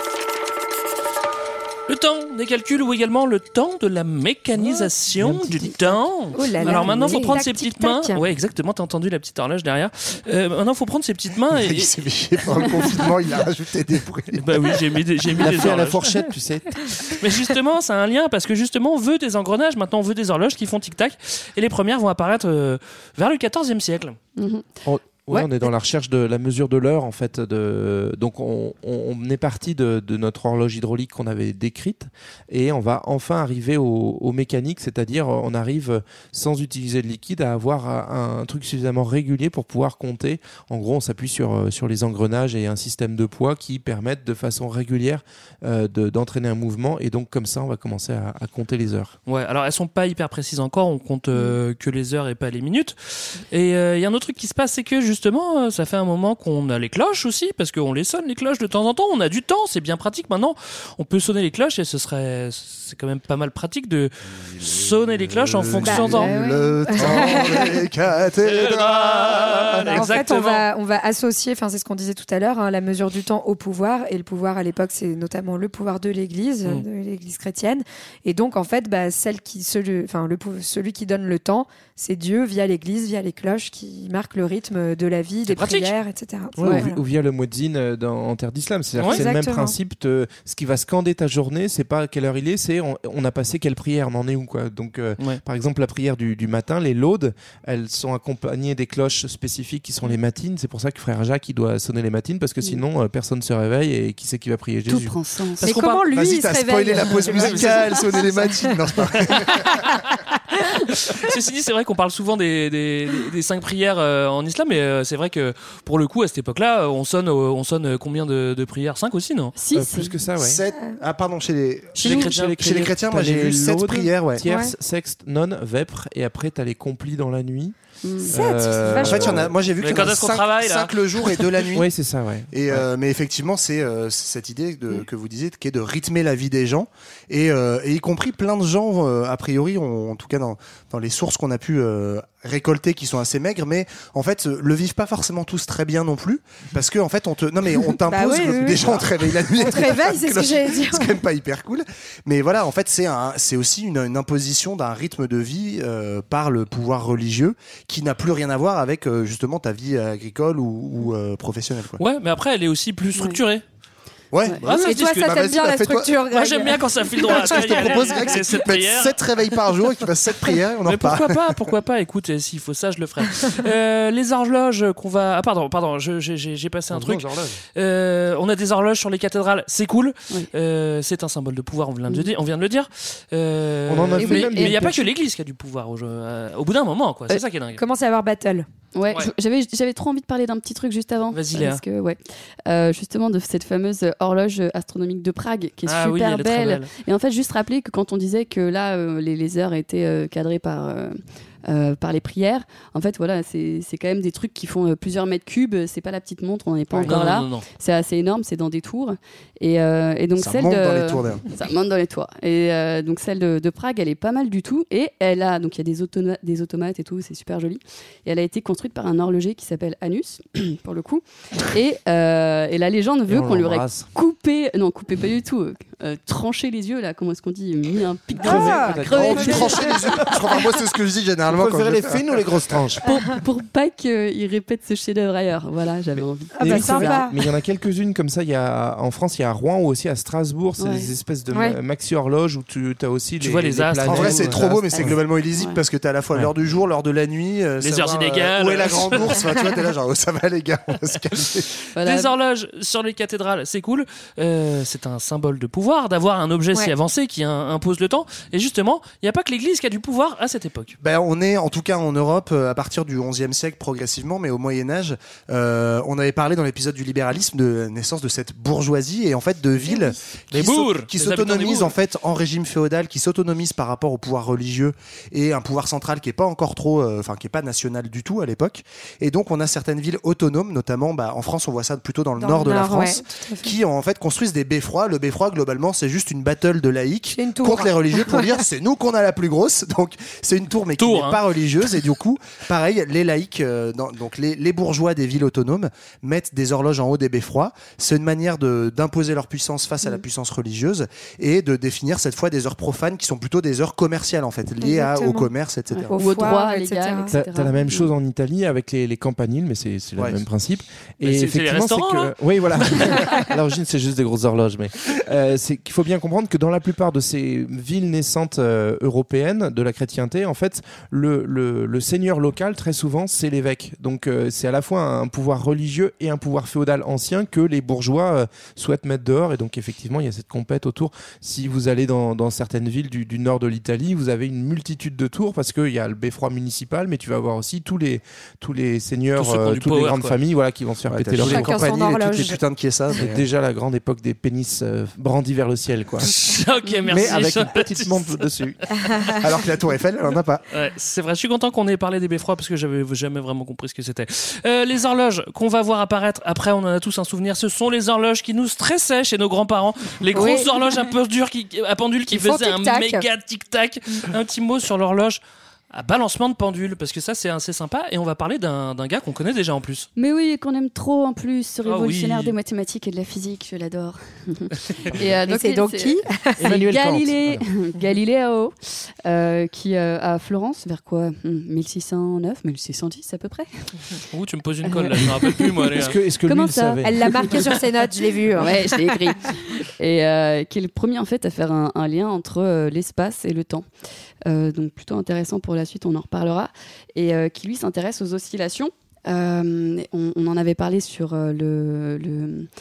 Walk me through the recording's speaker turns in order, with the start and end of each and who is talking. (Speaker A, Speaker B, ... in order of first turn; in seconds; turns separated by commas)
Speaker A: 1.9-11.9, Speaker B: 5.2-6.0, Speaker C: 6.3-8.2, Speaker D: 6.7-7.3, Speaker E: 11.5-15.8, Speaker A: 14.3-16.0, Speaker B: 15.4-17.0, Speaker A: 17.2-24.2, Speaker D: 24.4-24.8, Speaker B: 24.9-49.1, Speaker D: 25.3-25.6, Speaker A: 49.3-66.3, Speaker E: 65.5-70.1, Speaker C: 65.8-67.8, Speaker A: 67.0-67.5, Speaker A: 68.4-70.7, Speaker C: 69.8-87.0, Speaker A: 85.5-85.9, Speaker B: 86.6-105.2, Speaker C: 89.0-89.8, Speaker D: 104.9-105.7, Speaker C: 105.6-108.8, Speaker A: 105.6-106.0, Speaker E: 106.1-109.8, Speaker C: 109.5-110.0, Speaker A: 110.1-119.5, Speaker D: 119.6-120.1, Speaker B: 119.7-120.6, Speaker E: 120.4-124.4, Speaker A: 122.0-122.6, Speaker B: 122.0-129.5, Speaker C: 124.5-124.7, Speaker D: 128.0-128.3, Speaker C: 128.3-129.5, Speaker E: 129.0-131.9, Speaker A: 129.8-131.5, Speaker B: 131.7-132.8, Speaker E: 132.5-162.0, Speaker C: 148.1-151.2, Speaker A: 162.0-163.6, Speaker E: 164.3-166.2, Speaker A: 164.6-165.3, Speaker C: 164.8-168.4, Speaker A: 166.3-169.2, Speaker E: 167.2-171.4, Speaker A: 170.8-187.8, Speaker B: 176.9-177.6, Speaker B: 183.9-185.0, Speaker D: 184.2-185.0, Speaker C: 187.8-188.7, Speaker D: 188.9-230.3, Speaker A: 191.3-191.8, Speaker A: 195.9-196.9, Speaker B: 206.9-207.2, Speaker A: 207.1-207.7, Speaker E: 210.4-211.4, Speaker B: 223.3-224.1, Speaker B: 228.4-230.1, Speaker C: 228.4-229.9, Speaker E: 229.1-232.5, Speaker B: 231.5-233.0, Speaker D: 233.0-237.2, Speaker B: 236.2-245.2, Speaker C: 236.6-237.3, Speaker D: 240.8-241.1, Speaker A: 243.4-244.6, Speaker E: 244.1-251.7, Speaker D: 244.9-245.8, Speaker A: 247.8-249.4, Speaker D: 251.9-252.3, Speaker A: 252.0-261.0, Speaker E: 261.0-306.1, Speaker C: 269.9-270.1, Speaker A: 270.5-271.9, Speaker C: 282.4-283.7, Speaker C: 287.4-288.6, Speaker A: 291.0-291.4, Speaker C: 304.8-305.5, Speaker C: 306.1-307.3, Speaker D: 306.1-308.1, Speaker B: 307.3-341.9, Speaker A: 311.2-312.3, Speaker A: 339.4-340.4, Speaker E: 341.1-343.4, Speaker C: 341.4-342.6, Speaker B: 343.2-346.3, Speaker A: 346.3-348.5, Speaker B: 347.1-348.9, Speaker A: 349.1-349.4, Speaker E: 349.4-350.6, Speaker A: 350.7-365.4, Speaker C: 360.3-360.8, Speaker C: 362.3-363.2, Speaker A: 365.9-370.1, Speaker D: 370.2-384.2, Speaker A: 371.9-372.6, Speaker C: 375.5-376.7, Speaker B: 376.6-377.7, Speaker A: 384.3-386.2, Speaker D: 384.9-385.8, Speaker B: 385.9-387.5, Speaker D: 386.5-387.7, Speaker C: 387.1-389.2, Speaker D: 388.6-393.9, Speaker D: 394.5-402.7